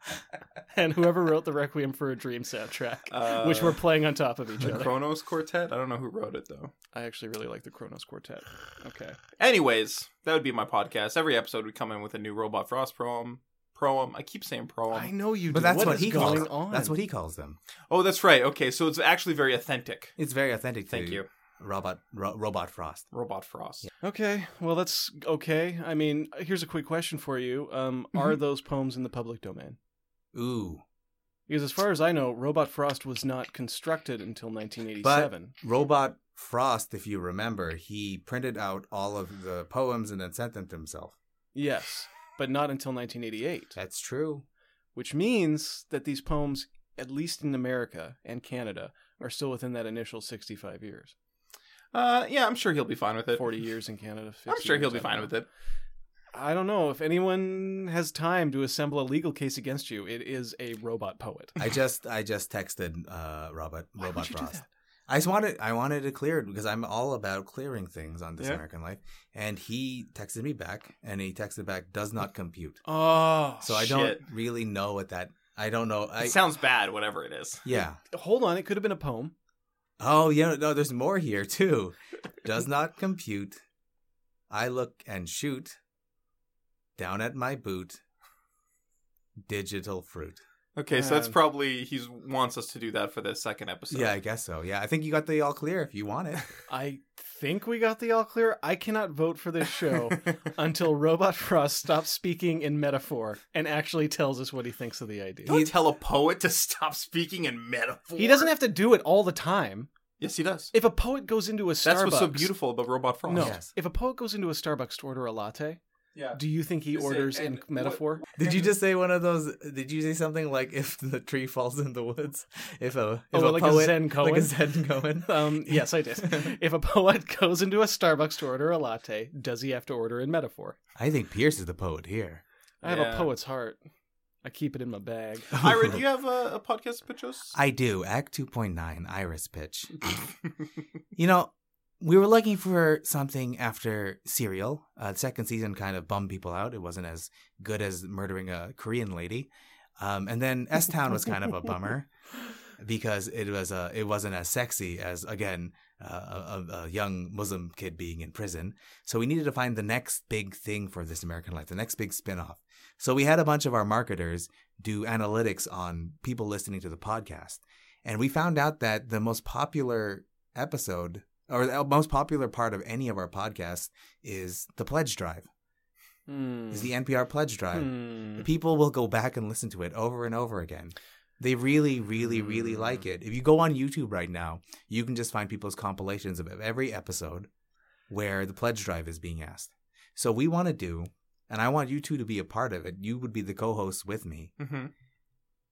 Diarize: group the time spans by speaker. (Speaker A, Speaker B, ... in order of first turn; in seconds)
Speaker A: 0.7-5.0, 6.9-9.2, 14.9-17.0, 24.0-29.8, 31.5-35.5, 41.5-43.8, 44.9-51.1, 53.3-55.3, 56.3-61.6, 64.0-64.7, 72.8-73.9, 78.1-79.3, 90.9-91.3, 96.7-105.6, 108.2-109.9, 110.7-112.5, 113.2-115.8, 116.3-118.2, 123.3-124.5, 125.2-130.8, 132.8-133.8, 134.4-135.7, 176.3-176.9, 177.7-178.4
Speaker B: 3.1-3.8, 4.6-6.7, 9.4-15.1, 17.9-20.1, 20.9-21.3, 23.1-23.9, 51.9-53.5, 54.5-55.5, 73.8-74.2, 76.2-77.6, 90.8-94.1, 100.1-100.3, 105.5-108.5, 110.2-110.7, 111.8-113.5, 116.9-118.6, 132.8-133.3, 135.5-137.5, 194.6-194.9
Speaker C: 15.5-17.6, 20.2-23.1, 30.3-30.8, 35.0-41.2, 43.7-44.4, 61.6-72.8, 73.6-76.4, 77.6-78.0, 80.0-83.6, 84.5-85.8, 87.0-88.0, 89.4-90.4, 93.9-96.4, 105.5-105.8, 113.3-113.7, 118.3-126.5, 130.9-132.4, 135.5-136.0, 137.5-140.0, 141.1-152.1, 152.8-175.5, 176.7-187.5, 188.1-194.5